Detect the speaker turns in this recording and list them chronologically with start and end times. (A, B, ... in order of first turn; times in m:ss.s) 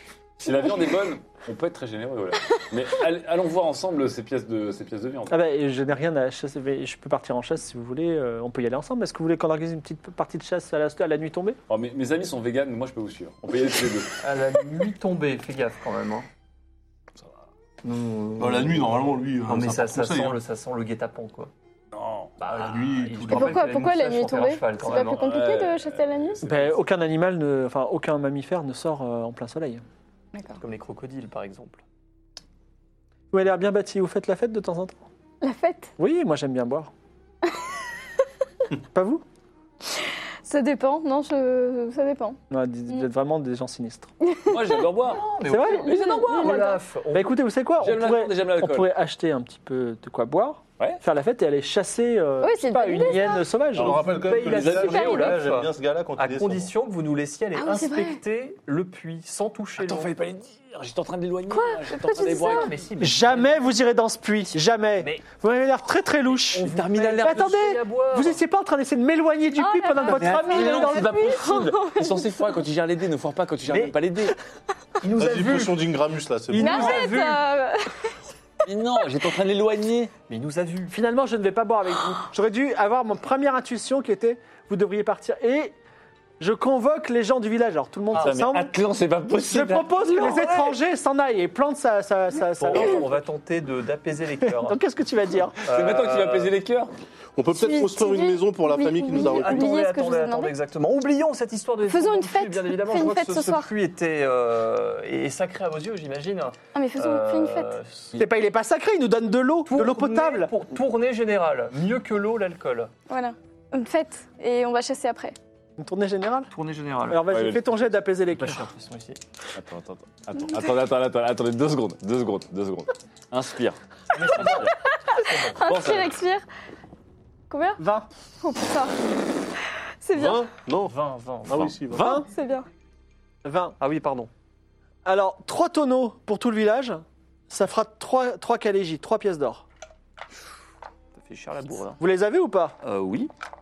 0:00.4-0:05.4 A
0:05.3-0:11.6 B
0:11.7-0:14.2 A
0:14.2-0:16.3 C
0:17.8-0:21.5 C
0:18.4-0:20.4 D
0:21.9-0:22.3 A
0:22.4-0:25.2 C
0:22.5-0:23.6 D
0:23.3-0:26.4 E
0:25.1-0:26.8 A
0:26.4-0:29.8 B
0:30.3-0:30.6 E
0:30.6-0:31.8 C
0:33.3-0:35.0 B
0:35.4-0:35.9 E
0:36.0-0:36.9 B
0:38.9-0:39.2 B
0:39.9-0:43.0 E
0:42.5-0:44.1 B
0:44.2-0:44.9 E
0:44.5-0:45.3 A
0:45.0-0:47.4 C
0:45.5-0:45.9 B
0:45.8-0:46.8 E
0:45.9-0:46.6 A
0:47.1-0:54.0 B
0:47.8-0:48.9 A
0:52.4-0:53.5 E
0:53.7-0:56.7 D
0:53.8-1:00.1 C
0:54.7-0:55.4 E
0:57.6-0:58.2 E
0:59.8-1:02.7 A
1:01.5-1:02.7 E
1:02.2-1:03.7 C
1:03.0-1:06.7 B
1:06.3-1:08.4 C
1:06.6-1:07.5 A
1:07.2-1:11.2 B
1:09.6-1:12.4 E
1:10.0-1:11.0 C
1:10.1-1:14.3 A
1:13.7-1:13.9 C
1:15.0-1:15.9 C
1:15.2-1:17.0 D
1:16.5-1:17.5 C
1:16.6-1:18.1 E
1:18.6-1:20.1 A
1:20.3-1:20.9 C
1:20.9-1:25.7 B
1:26.4-1:28.7 B
1:28.1-1:28.4 C
1:28.1-1:30.0 A
1:29.5-1:33.2 B
1:29.9-1:30.8 C
1:32.5-1:34.8 C
1:34.4-1:35.6 B
1:35.6-1:36.5 C
1:35.7-1:36.9 A
1:37.4-1:39.7 D
1:37.5-1:40.6 E
1:39.1-1:48.2 C
1:41.9-1:43.7 E
1:46.7-1:47.8 E
1:48.1-1:50.5 B
1:49.6-1:52.9 C
1:53.1-1:55.4 E
1:55.8-1:56.5 B
1:56.5-1:57.3 C
1:57.1-1:58.7 B
1:57.2-1:57.9 A
1:58.3-1:59.2 C
1:59.5-2:04.7 A
2:04.1-2:05.6 C
2:04.7-2:06.4 E
2:05.6-2:06.1 A
2:07.5-2:07.8 E
2:07.8-2:08.1 B
2:08.4-2:09.0 E
2:10.0-2:10.5 E
2:10.1-2:12.1 D
2:10.8-2:11.8 C
2:11.5-2:12.2 A
2:11.9-2:12.3 B
2:12.0-2:12.7 E
2:13.4-2:13.8 B
2:13.8-2:14.3 C
2:15.0-2:19.6 B
2:21.2-2:22.0 C
2:22.0-2:22.8 B
2:22.8-2:23.3 C